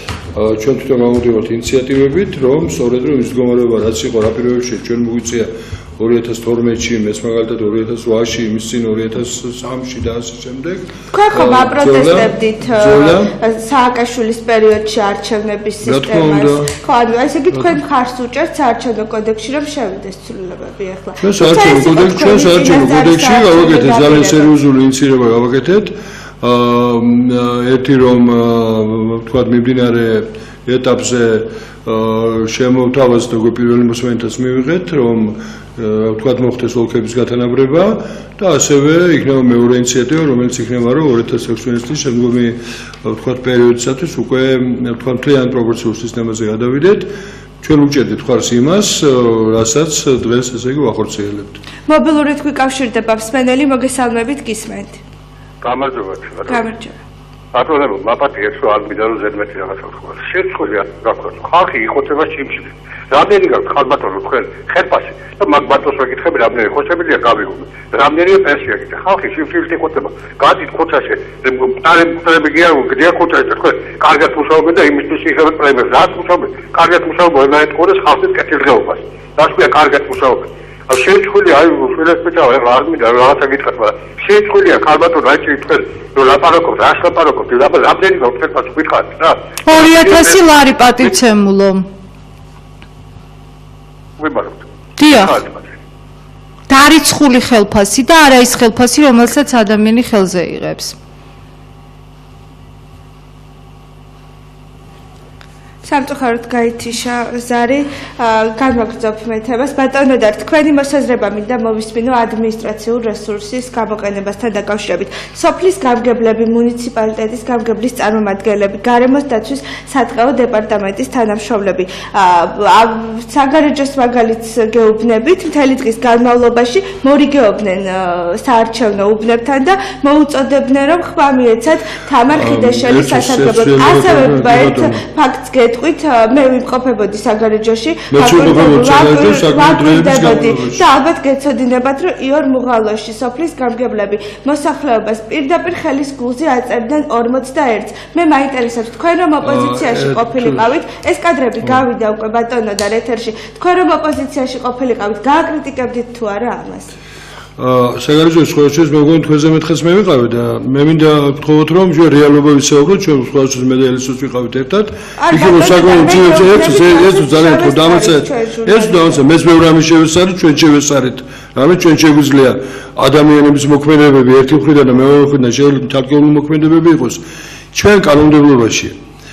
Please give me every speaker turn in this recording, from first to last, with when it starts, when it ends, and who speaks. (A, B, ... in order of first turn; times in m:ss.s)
0:00.3-0:13.3 A
0:11.1-0:24.5 B
0:15.8-0:16.7 A
0:17.5-0:17.8 A
0:21.2-0:47.1 A
0:47.6-0:51.6 A
0:51.9-0:55.0 B
0:55.6-0:56.6 C
0:56.5-0:57.0 B
0:57.5-1:30.4 C
1:29.6-1:31.9 D
1:34.2-1:35.6 C
1:35.0-1:35.4 D
1:36.7-1:41.0 D
1:45.8-2:36.9 B
2:12.3-2:15.0 A
2:18.1-2:20.8 A
2:29.4-2:30.7 A
2:37.6-2:57.2 A
2:45.2-2:49.2 B
2:57.7-2:58.9 A